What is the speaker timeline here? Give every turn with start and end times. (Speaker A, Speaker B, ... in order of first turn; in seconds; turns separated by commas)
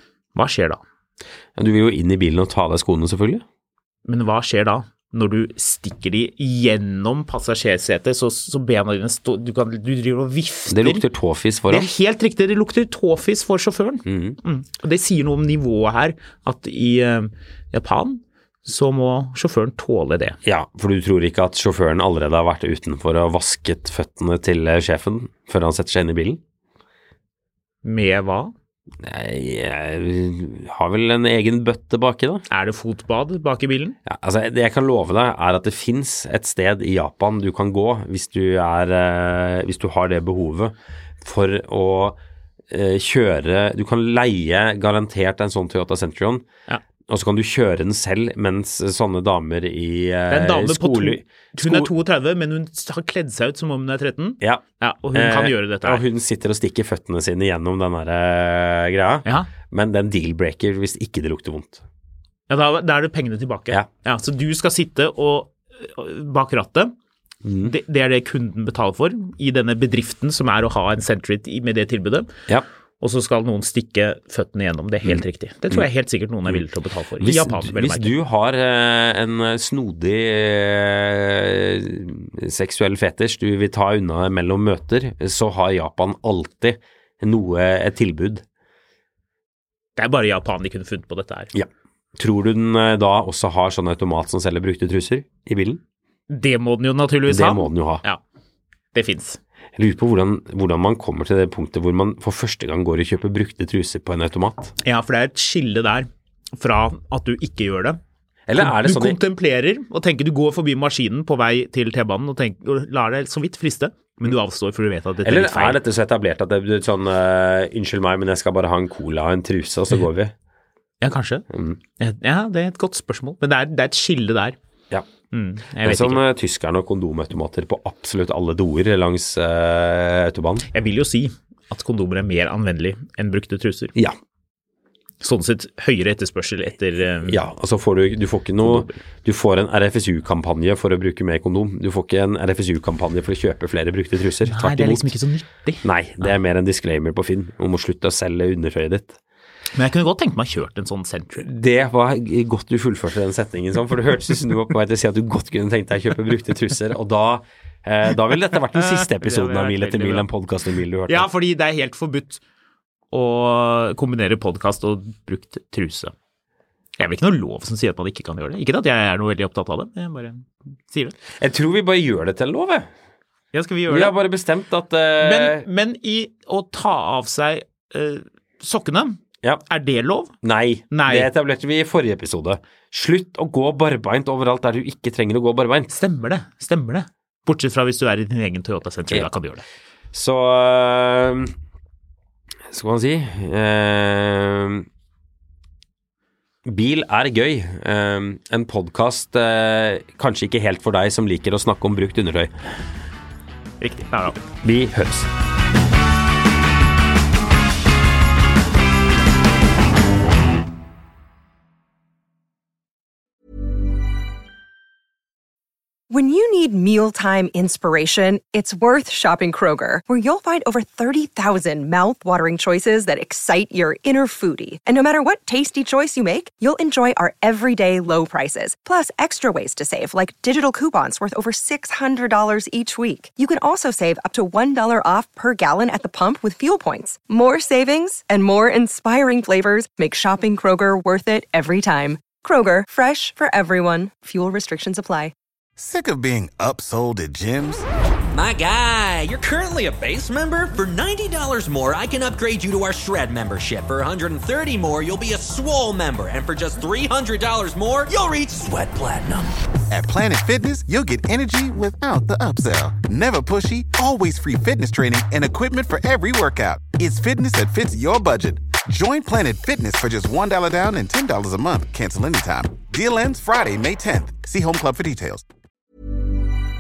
Speaker A: 0.3-0.8, Speaker B: 1.6-3.4, Speaker A: 4.0-11.0, Speaker B: 10.7-11.9, Speaker A: 11.7-20.4, Speaker B: 14.1-14.4, Speaker B: 20.4-26.4, Speaker A: 27.8-28.5, Speaker B: 29.0-32.4, Speaker A: 32.5-34.0, Speaker B: 34.0-42.2, Speaker B: 42.7-46.4, Speaker B: 47.1-51.9, Speaker A: 50.3-56.0, Speaker B: 54.4-61.8, Speaker A: 59.2-59.5, Speaker A: 62.5-66.9, Speaker B: 67.4-67.7, Speaker A: 67.6-72.3, Speaker A: 73.0-78.1, Speaker B: 75.0-75.8, Speaker B: 77.2-88.4, Speaker A: 90.0-91.5, Speaker B: 91.5-95.8, Speaker A: 96.3-98.2, Speaker B: 97.3-98.0, Speaker A: 98.9-99.4, Speaker B: 99.8-104.7, Speaker A: 104.8-108.0, Speaker B: 108.5-109.2, Speaker A: 108.6-115.8, Speaker B: 115.2-120.3, Speaker A: 121.0-121.4, Speaker B: 121.5-121.8, Speaker A: 122.0-124.6, Speaker A: 125.3-126.2, Speaker B: 125.8-130.7, Speaker A: 130.7-133.9, Speaker A: 135.2-137.4, Speaker B: 137.3-145.1, Speaker A: 138.6-139.0, Speaker A: 144.4-146.3, Speaker B: 145.8-149.2, Speaker A: 149.7-151.4, Speaker B: 151.4-161.3, Speaker A: 158.9-160.2, Speaker A: 161.1-162.4, Speaker A: 163.1-166.1, Speaker A: 167.0-171.1, Speaker B: 171.4-172.9, Speaker A: 173.5-174.1, Speaker B: 173.9-175.6, Speaker A: 175.2-180.3, Speaker B: 180.4-185.9, Speaker A: 180.9-181.3, Speaker A: 185.9-189.6, Speaker B: 190.1-191.5, Speaker B: 192.7-194.8, Speaker B: 196.6-202.5, Speaker A: 203.8-204.4, Speaker B: 204.6-205.3, Speaker C: 216.1-245.3, Speaker D: 245.8-247.8, Speaker E: 248.3-259.6, Speaker D: 259.9-275.4